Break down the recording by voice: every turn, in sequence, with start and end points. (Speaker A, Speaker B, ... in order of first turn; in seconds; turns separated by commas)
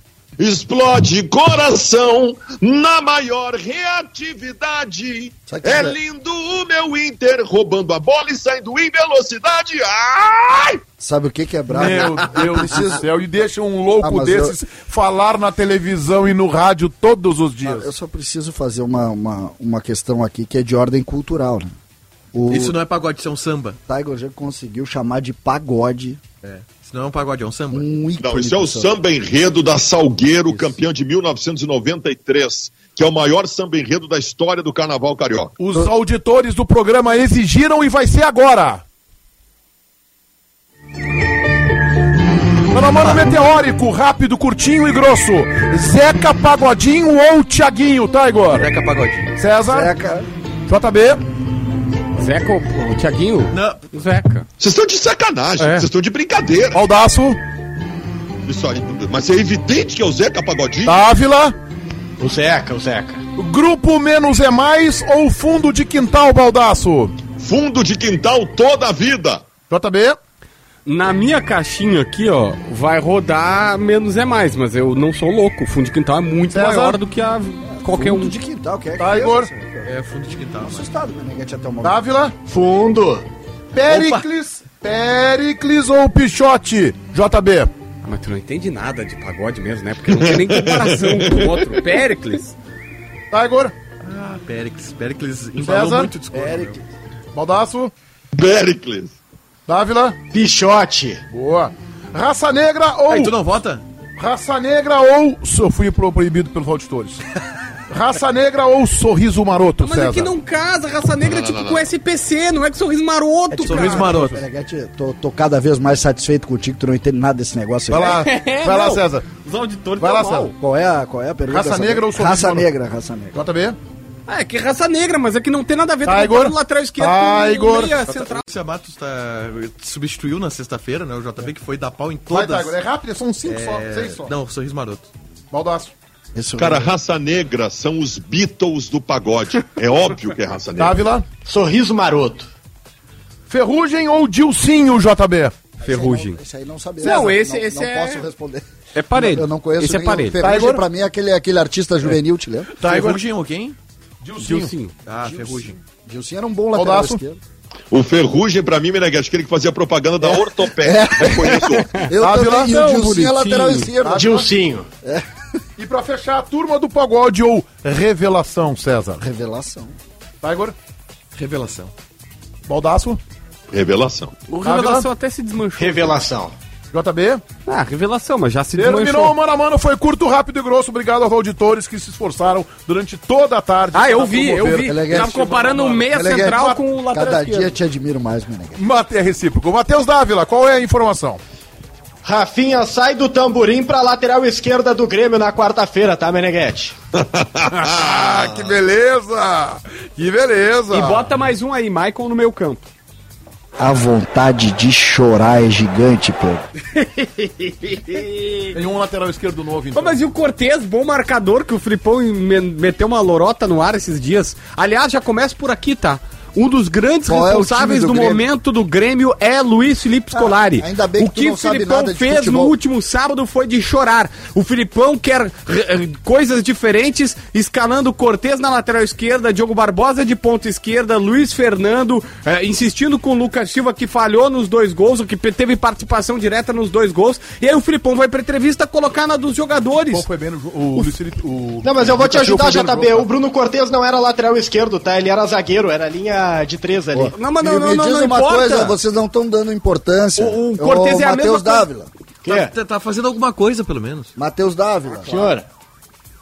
Speaker A: 0.4-10.8, Speaker B: 5.5-6.0, Speaker B: 11.0-13.0, Speaker C: 11.7-17.9, Speaker B: 14.0-14.6, Speaker B: 17.6-21.7, Speaker B: 22.3-22.8, Speaker D: 22.5-23.8, Speaker B: 23.9-26.2, Speaker D: 26.4-27.9, Speaker B: 27.7-28.9, Speaker A: 28.2-35.5, Speaker C: 35.6-38.8, Speaker C: 42.7-48.7, Speaker D: 48.5-49.3, Speaker C: 49.4-49.9, Speaker B: 49.7-50.3, Speaker C: 50.7-51.2, Speaker E: 52.1-54.5, Speaker D: 53.5-53.8, Speaker A: 54.6-56.8, Speaker C: 56.7-57.4, Speaker A: 58.5-61.0, Speaker C: 60.8-61.5, Speaker F: 62.2-63.2, Speaker C: 63.4-67.2, Speaker A: 67.4-69.5, Speaker C: 69.7-70.2, Speaker E: 70.8-78.3, Speaker C: 76.5-77.0, Speaker B: 77.7-79.9, Speaker C: 79.0-79.5, Speaker D: 79.8-80.9, Speaker B: 80.6-82.0, Speaker C: 81.8-82.3, Speaker F: 82.5-83.2, Speaker C: 83.7-87.7, Speaker D: 83.9-84.2, Speaker E: 88.0-92.5, Speaker A: 90.2-91.4, Speaker C: 93.3-93.7, Speaker D: 94.0-96.8, Speaker C: 95.6-96.1, Speaker B: 96.3-96.8, Speaker C: 97.3-97.9, Speaker A: 98.3-99.2, Speaker C: 99.7-100.2, Speaker F: 100.3-101.2, Speaker C: 101.3-103.3, Speaker D: 103.1-103.8, Speaker C: 104.2-107.2, Speaker C: 107.9-110.3, Speaker E: 109.8-114.1, Speaker A: 111.2-111.9, Speaker B: 113.5-118.2, Speaker D: 113.6-114.4, Speaker C: 113.7-114.4, Speaker C: 117.9-119.2, Speaker E: 117.9-120.5, Speaker C: 120.0-120.5, Speaker B: 120.5-123.4, Speaker C: 121.5-122.7, Speaker C: 123.3-123.8, Speaker E: 124.3-128.4, Speaker C: 126.0-128.0, Speaker D: 128.1-132.8, Speaker C: 132.3-134.3, Speaker D: 133.4-135.1, Speaker C: 135.5-135.9, Speaker B: 136.3-136.9, Speaker A: 136.6-141.0, Speaker C: 140.8-141.2, Speaker F: 141.4-142.5, Speaker C: 143.5-145.5, Speaker B: 145.8-152.7, Speaker E: 145.8-146.4, Speaker E: 147.0-148.2, Speaker C: 147.0-147.3, Speaker E: 148.9-150.4, Speaker C: 150.4-150.8, Speaker D: 152.8-153.8, Speaker C: 152.8-153.2, Speaker C: 154.2-154.7, Speaker E: 154.4-154.9, Speaker D: 155.1-155.8, Speaker B: 155.2-157.4, Speaker C: 156.7-157.2, Speaker A: 157.9-161.9, Speaker B: 160.2-164.4, Speaker C: 162.2-163.3, Speaker E: 163.2-163.9, Speaker C: 164.0-164.5, Speaker F: 164.1-164.9, Speaker C: 165.8-169.2, Speaker B: 169.2-170.0, Speaker C: 170.4-170.7, Speaker D: 171.3-171.9, Speaker C: 172.7-173.2, Speaker A: 173.7-174.3, Speaker E: 174.5-176.1, Speaker C: 174.6-175.1, Speaker F: 175.8-176.5, Speaker C: 176.9-177.4, Speaker E: 177.7-179.3, Speaker C: 178.7-186.8, Speaker E: 183.9-187.8, Speaker B: 184.8-185.3, Speaker B: 186.1-188.8, Speaker C: 188.8-191.4, Speaker F: 192.2-196.9, Speaker A: 197.3-198.0, Speaker C: 197.7-201.2, Speaker E: 200.9-202.9, Speaker B: 203.8-206.7, Speaker E: 206.9-208.8, Speaker C: 208.7-210.2, Speaker E: 209.9-240.3, Speaker B: 217.2-218.4, Speaker B: 220.3-222.8, Speaker C: 240.1-243.3, Speaker F: 241.8-247.3, Speaker B: 247.1-252.1, Speaker E: 247.3-249.0, Speaker E: 250.4-251.9, Speaker F: 252.4-252.7, Speaker D: 252.4-254.3, Speaker B: 254.3-255.4, Speaker F: 255.2-255.6